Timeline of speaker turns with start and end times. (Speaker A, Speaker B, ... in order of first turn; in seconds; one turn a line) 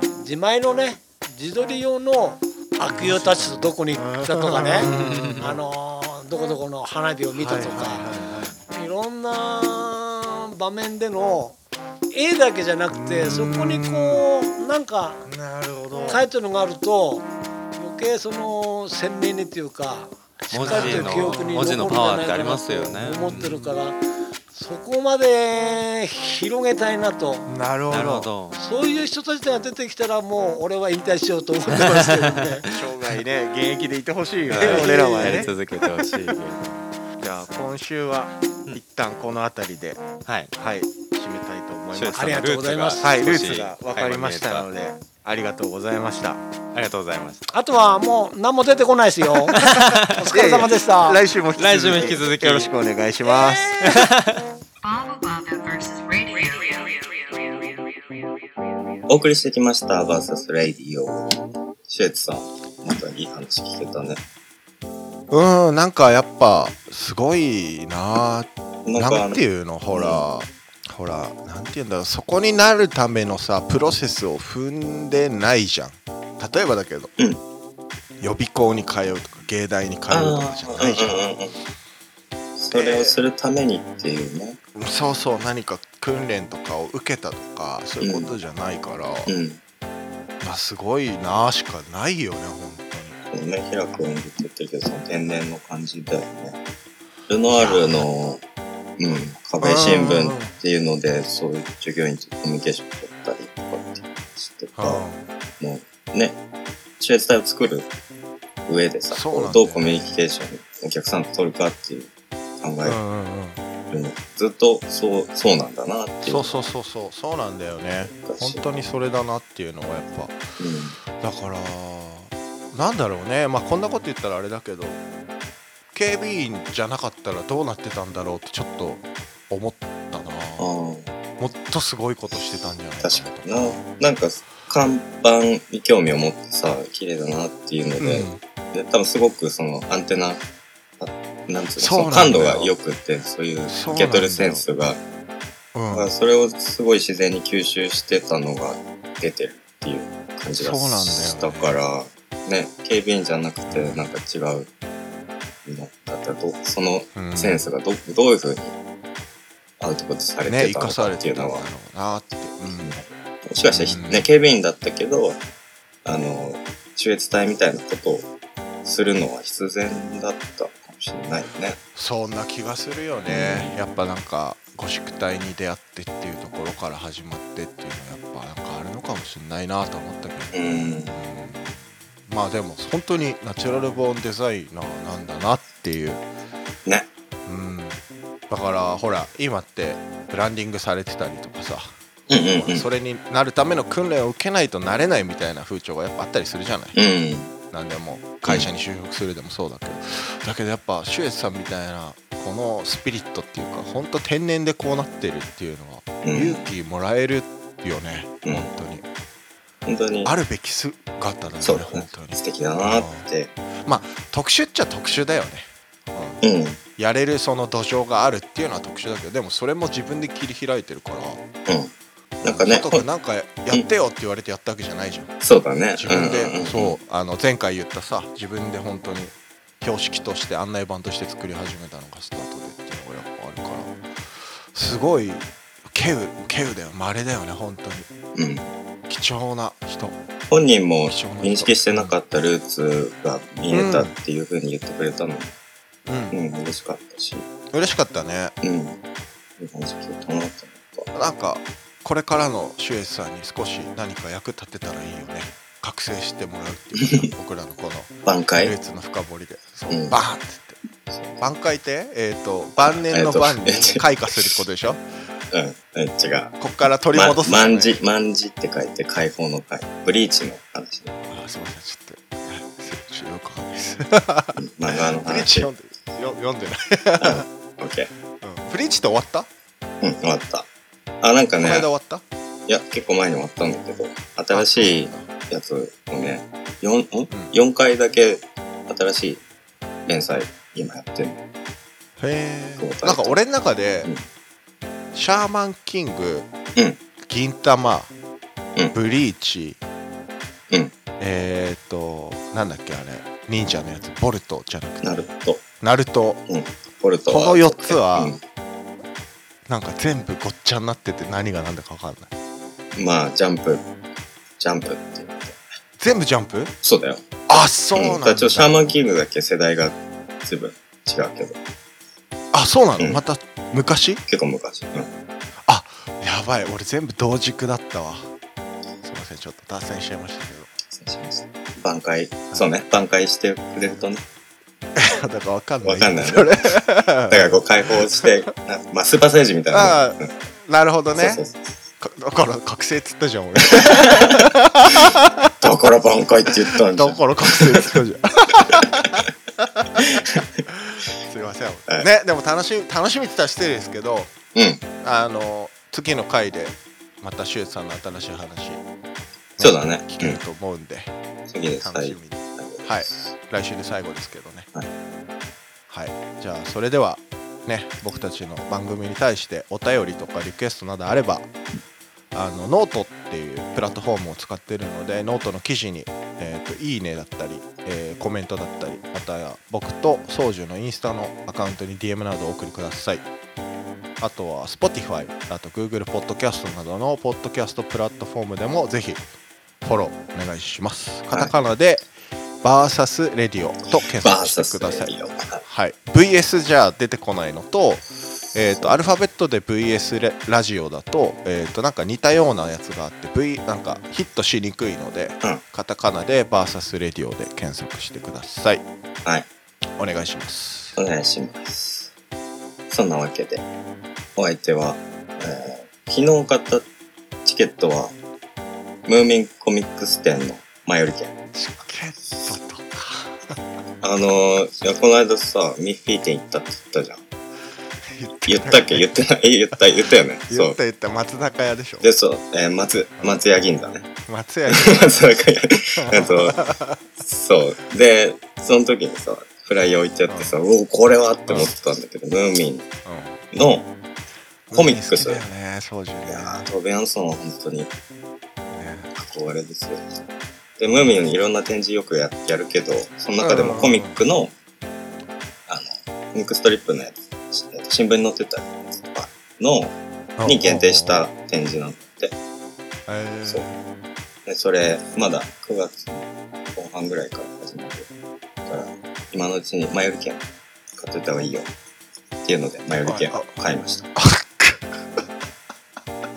Speaker A: 0.1-8.1
Speaker B: 3.0-3.7
Speaker B: 4.3-5.5
Speaker C: 4.9-5.5
Speaker B: 7.4-8.5
Speaker D: 7.5-8.5
Speaker A: 8.7-11.6
Speaker A: 12.1-15.3
Speaker B: 13.0-14.1
Speaker D: 13.2-13.6
Speaker B: 15.4-15.9
Speaker D: 15.9-16.2
Speaker A: 16.1-17.3
Speaker A: 17.8-24.0
Speaker C: 20.5-23.6
Speaker B: 20.7-21.3
Speaker D: 20.9-21.4
Speaker A: 24.5-27.5
Speaker B: 27.5-28.3
Speaker C: 27.9-28.6
Speaker D: 27.9-28.2
Speaker A: 28.6-32.7
Speaker C: 31.7-33.1
Speaker D: 32.7-35.5
Speaker B: 33.0-35.5
Speaker C: 34.5-36.8
Speaker A: 34.6-35.4
Speaker B: 37.2-39.8
Speaker D: 37.3-38.1
Speaker D: 38.8-40.0
Speaker C: 40.2-40.5
Speaker B: 40.6-42.2
Speaker D: 40.8-42.2
Speaker C: 41.9-44.7
Speaker A: 42.1-43.1
Speaker B: 43.0-46.4
Speaker D: 43.1-45.2
Speaker D: 45.9-46.4
Speaker C: 46.7-47.5
Speaker A: 47.5-51.2
Speaker C: 49.6-50.1
Speaker B: 50.3-53.7
Speaker D: 50.4-53.6
Speaker C: 51.5-52.8
Speaker C: 53.7-54.4
Speaker E: 54.8-57.8
Speaker F: 59.1-64.2
Speaker B: 65.3-77.1
Speaker F: 68.9-70.2
Speaker B: 78.2-81.4
Speaker F: 80.1-81.6
Speaker F: 82.6-84.6
Speaker B: 82.7-83.2
Speaker B: 84.7-89.3
Speaker F: 88.0-88.3
Speaker F: 89.3-89.6
Speaker B: 90.4-93.2
Speaker F: 93.3-96.6
Speaker F: 97.3-98.4
Speaker B: 97.5-98.0
Speaker F: 99.0-105.0
Speaker B: 99.6-100.5
Speaker B: 104.8-105.2
Speaker F: 105.6-106.4
Speaker F: 107.0-107.9
Speaker F: 108.7-113.0
Speaker B: 109.1-110.1
Speaker B: 112.8-113.6
Speaker F: 113.9-116.5
Speaker B: 116.2-120.4
Speaker F: 118.1-118.6
Speaker F: 120.6-121.0
Speaker B: 121.1-125.0
Speaker B: 125.9-130.7
Speaker F: 130.6-131.1
Speaker B: 131.4-133.8
Speaker F: 133.0-140.4
Speaker B: 138.0-138.4
Speaker F: 141.0-145.0
Speaker B: 141.8-142.7
Speaker B: 143.7-144.7
Speaker B: 145.8-146.1
Speaker F: 145.9-154.7
Speaker B: 150.6-151.8
Speaker B: 153.7-154.1
Speaker F: 155.7-158.8
Speaker B: 157.2-157.6
Speaker F: 159.8-161.6
Speaker B: 160.5-163.0
Speaker F: 162.8-165.4
Speaker B: 163.7-164.3
Speaker F: 166.1-168.3
Speaker F: 168.8-171.8
Speaker B: 171.9-186.2
Speaker F: 173.3-173.8
Speaker F: 180.5-181.1
Speaker B: 187.5-196.9
Speaker F: 192.3-192.9
Speaker F: 196.9-197.5
Speaker B: 197.7-209.0
Speaker F: 206.2-206.7
Speaker F: 208.4-208.7
Speaker F: 209.9-210.3
Speaker B: 210.2-213.3
Speaker F: 211.6-213.5
Speaker B: 213.8-216.4
Speaker F: 216.4-216.8
Speaker B: 217.0-221.4
Speaker F: 221.7-221.9
Speaker F: 222.4-223.1
Speaker B: 222.4-225.3
Speaker F: 225.4-227.0
Speaker B: 226.0-238.1
Speaker F: 238.3-238.7
Speaker B: 239.1-240.2
Speaker F: 240.5-245.5
Speaker B: 241.1-242.2
Speaker B: 243.7-244.1
Speaker B: 246.1-246.4
Speaker F: 246.3-247.5
Speaker B: 247.7-248.6
Speaker F: 248.6-249.0
Speaker F: 249.6-251.1
Speaker B: 251.1-260.8
Speaker F: 257.0-257.3
Speaker F: 258.2-258.8
Speaker F: 259.9-260.2
Speaker F: 261.1-261.4
Speaker B: 261.4-265.1
Speaker F: 262.8-264.6
Speaker F: 265.5-266.6
Speaker B: 266.6-268.0
Speaker F: 267.1-271.2
Speaker B: 271.2-277.5
Speaker F: 274.6-275.7
Speaker F: 277.2-278.1
Speaker B: 278.4-279.5
Speaker F: 280.0-280.7
Speaker F: 281.2-281.9
Speaker B: 281.6-282.2
Speaker F: 282.7-289.4
Speaker B: 284.5-285.3
Speaker F: 290.1-291.4
Speaker B: 292.2-294.1
Speaker F: 292.8-293.4
Speaker B: 295.1-296.5
Speaker B: 297.2-298.1
Speaker B: 298.9-299.8
Speaker B: 301.2-305.3
Speaker F: 305.0-305.6
Speaker B: 305.8-306.4
Speaker F: 306.5-308.4
Speaker B: 307.3-308.4
Speaker B: 309.7-312.3
Speaker F: 312.9-313.9
Speaker F: 314.6-315.6
Speaker B: 316.0-316.7
Speaker F: 316.8-317.4
Speaker B: 317.5-319.0
Speaker F: 317.9-321.6
Speaker B: 322.5-324.2
Speaker F: 324.3-325.1
Speaker B: 325.7-328.3
Speaker B: 329.0-330.7
Speaker F: 330.9-334.2
Speaker B: 335.0-338.4
Speaker F: 335.8-336.8
Speaker F: 337.3-340.3
Speaker B: 339.7-341.4
Speaker F: 341.1-341.8
Speaker B: 342.0-345.5
Speaker F: 343.7-348.0
Speaker B: 346.9-350.0
Speaker F: 348.7-349.1
Speaker F: 350.0-350.5
Speaker B: 350.7-354.3
Speaker F: 354.6-354.8
Speaker B: 355.0-358.8
Speaker B: 359.6-361.1
Speaker F: 359.6-360.4
Speaker F: 361.5-363.3
Speaker B: 361.8-364.7
Speaker B: 365.9-371.5
Speaker B: 372.3-383.3
Speaker B: 384.2-389.2
Speaker B: 389.8-392.1
Speaker B: 392.6-408.8
Speaker F: 394.2-395.6
Speaker B: 410.0-411.0
Speaker F: 411.0-412.1
Speaker F: 412.9-413.6
Speaker F: 414.4-416.9
Speaker F: 417.4-418.1
Speaker F: 419.1-421.3
Speaker B: 421.5-423.6
Speaker F: 424.0-427.2
Speaker B: 428.1-429.1
Speaker F: 428.5-430.8
Speaker B: 429.8-432.1
Speaker F: 432.0-434.0
Speaker B: 434.3-435.4
Speaker F: 434.7-436.7
Speaker B: 436.0-437.0
Speaker F: 437.2-442.9
Speaker B: 440.3-440.6
Speaker B: 441.5-441.8
Speaker B: 443.1-443.4
Speaker F: 443.5-443.9
Speaker B: 444.7-446.7
Speaker F: 444.7-445.4
Speaker F: 446.3-447.9
Speaker B: 448.7-449.1
Speaker F: 449.1-450.0
Speaker F: 450.8-454.5
Speaker B: 453.4-454.2
Speaker F: 455.7-462.4
Speaker B: 460.4-461.3
Speaker B: 463.1-463.8
Speaker F: 464.5-468.1
Speaker F: 468.7-470.4
Speaker F: 471.0-471.7
Speaker F: 472.4-474.1
Speaker B: 473.1-473.6
Speaker B: 474.1-475.2